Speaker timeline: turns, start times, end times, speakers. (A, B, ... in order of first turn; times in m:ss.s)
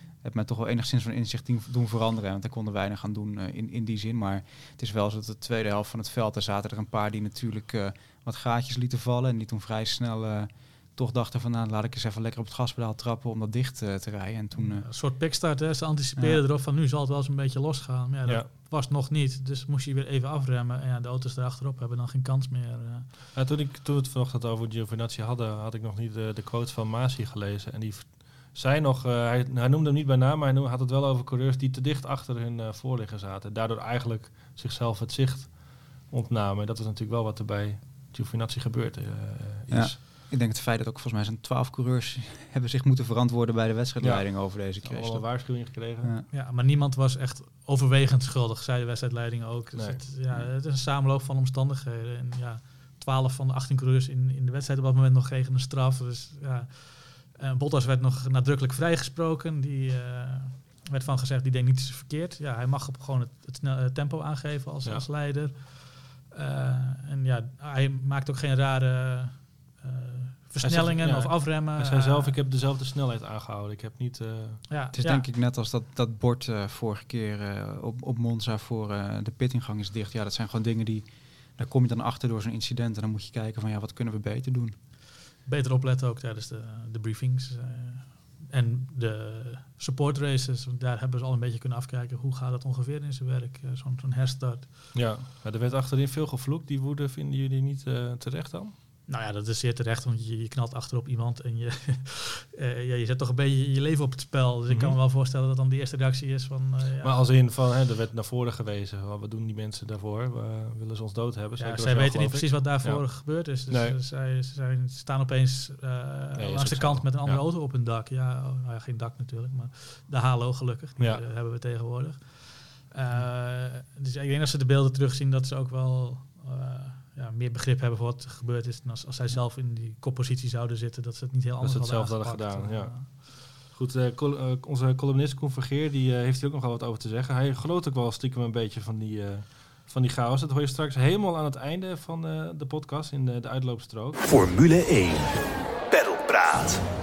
0:00.2-0:14.9 A
0:14.6-0:23.1 B
0:16.2-0:16.4 A
0:23.3-0:40.0 C
0:39.7-0:46.3 A
0:44.0-0:46.1 C
0:46.3-1:12.4 B
0:49.7-0:50.0 C
1:10.6-1:14.7 C
1:14.7-1:15.2 B
1:14.9-1:24.7 A
1:25.4-1:34.7 B
1:34.9-1:38.7 C
1:39.1-1:47.2 B
1:44.7-1:45.0 C
1:47.0-1:54.0 C
1:51.6-2:13.1 B
1:56.4-1:57.4 C
2:01.0-2:01.2 C
2:11.6-2:24.2 C
2:24.2-2:26.8 D